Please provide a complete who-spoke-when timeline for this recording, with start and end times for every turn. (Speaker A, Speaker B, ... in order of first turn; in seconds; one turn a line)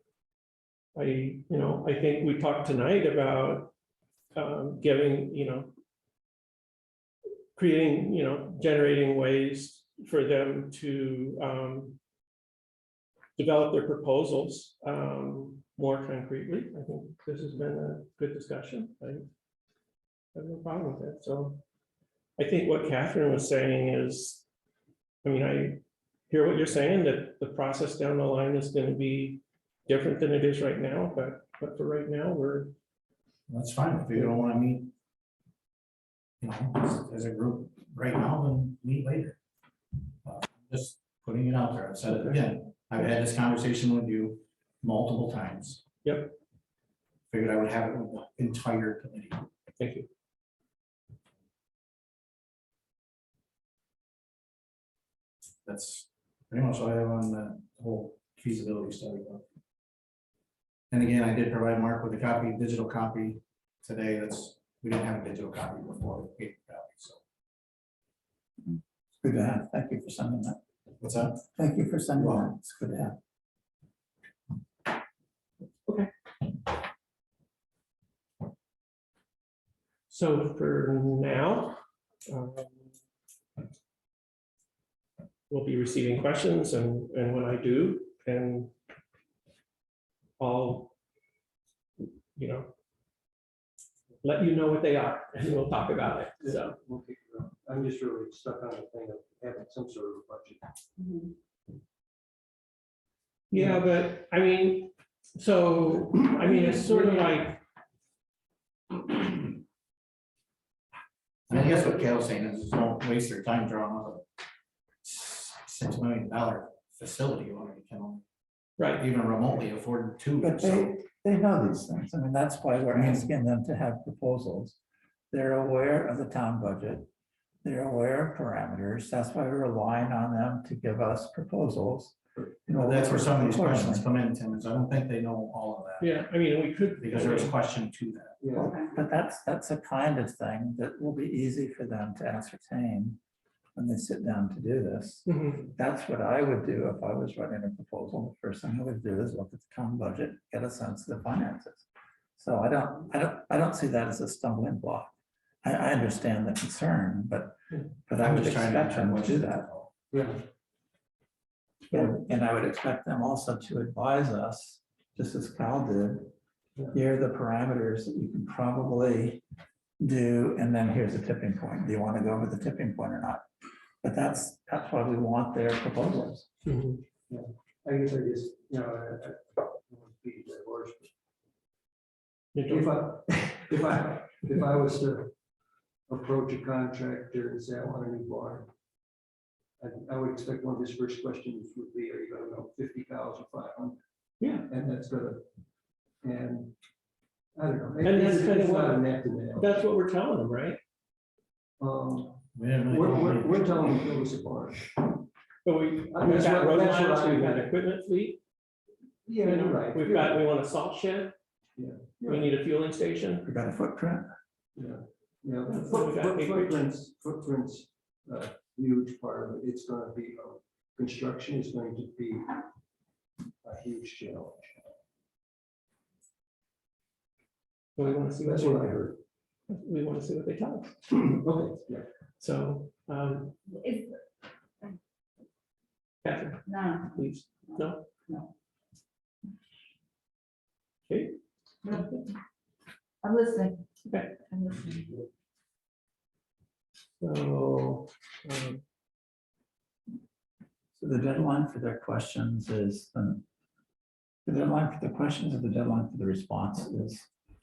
Speaker A: 0.9-3.7
Speaker A: 4.3-5.7
Speaker A: 7.5-12.0
Speaker A: 13.4-19.3
Speaker A: 20.3-21.6
Speaker A: 22.4-24.4
Speaker A: 25.2-32.7
Speaker B: 33.5-34.9
Speaker B: 36.4-39.4
Speaker B: 40.2-45.8
Speaker A: 46.0-46.4
Speaker B: 47.3-49.5
Speaker A: 49.8-50.1
Speaker B: 55.6-59.4
Speaker B: 60.9-67.2
Speaker C: 68.7-70.6
Speaker B: 71.0-71.4
Speaker C: 71.3-73.2
Speaker B: 72.2-72.5
Speaker A: 80.1-82.9
Speaker A: 85.5-88.7
Speaker A: 90.4-90.9
Speaker A: 92.3-92.7
Speaker A: 94.2-96.8
Speaker D: 96.4-100.7
Speaker E: 101.0-101.3
Speaker A: 103.5-107.6
Speaker B: 111.5-114.2
Speaker B: 115.0-118.2
Speaker A: 118.8-119.0
Speaker B: 119.0-120.9
Speaker C: 120.4-124.8
Speaker B: 122.9-123.2
Speaker C: 125.3-127.1
Speaker C: 127.6-132.2
Speaker D: 132.3-133.0
Speaker C: 132.7-134.0
Speaker B: 132.8-136.1
Speaker A: 136.0-137.6
Speaker B: 137.0-138.4
Speaker D: 138.4-138.8
Speaker E: 138.6-138.9
Speaker C: 138.8-143.2
Speaker C: 143.8-151.8
Speaker A: 145.2-145.7
Speaker C: 152.4-155.1
Speaker C: 155.6-159.6
Speaker B: 158.2-159.9
Speaker D: 160.1-160.4
Speaker C: 161.9-166.3
Speaker C: 166.9-169.4
Speaker C: 170.0-173.4
Speaker C: 174.0-176.5
Speaker A: 176.6-177.0
Speaker D: 177.3-181.1
Speaker A: 182.5-183.0
Speaker D: 182.7-185.3
Speaker D: 186.1-188.7
Speaker D: 189.8-194.0
Speaker A: 194.4-194.7
Speaker D: 194.7-195.4
Speaker D: 196.2-196.7
Speaker D: 197.5-199.7
Speaker A: 198.0-200.8
Speaker D: 201.8-205.0
Speaker B: 202.5-203.7
Speaker A: 205.6-208.4
Speaker D: 206.1-207.7
Speaker D: 209.2-210.4
Speaker A: 209.4-211.3
Speaker D: 211.8-212.5
Speaker A: 212.2-213.5
Speaker C: 213.4-214.3
Speaker D: 214.8-222.5
Speaker A: 215.7-216.8
Speaker D: 223.6-224.8
Speaker A: 227.9-229.1
Speaker D: 228.4-229.2
Speaker A: 229.7-231.2
Speaker D: 231.1-232.1
Speaker A: 232.4-233.8
Speaker E: 233.8-234.1
Speaker A: 236.2-238.1
Speaker E: 236.7-237.2
Speaker A: 241.1-241.4
Speaker E: 241.8-242.3
Speaker E: 243.2-245.2
Speaker A: 244.0-244.3
Speaker A: 247.2-248.8
Speaker C: 250.9-253.4
Speaker C: 254.4-257.3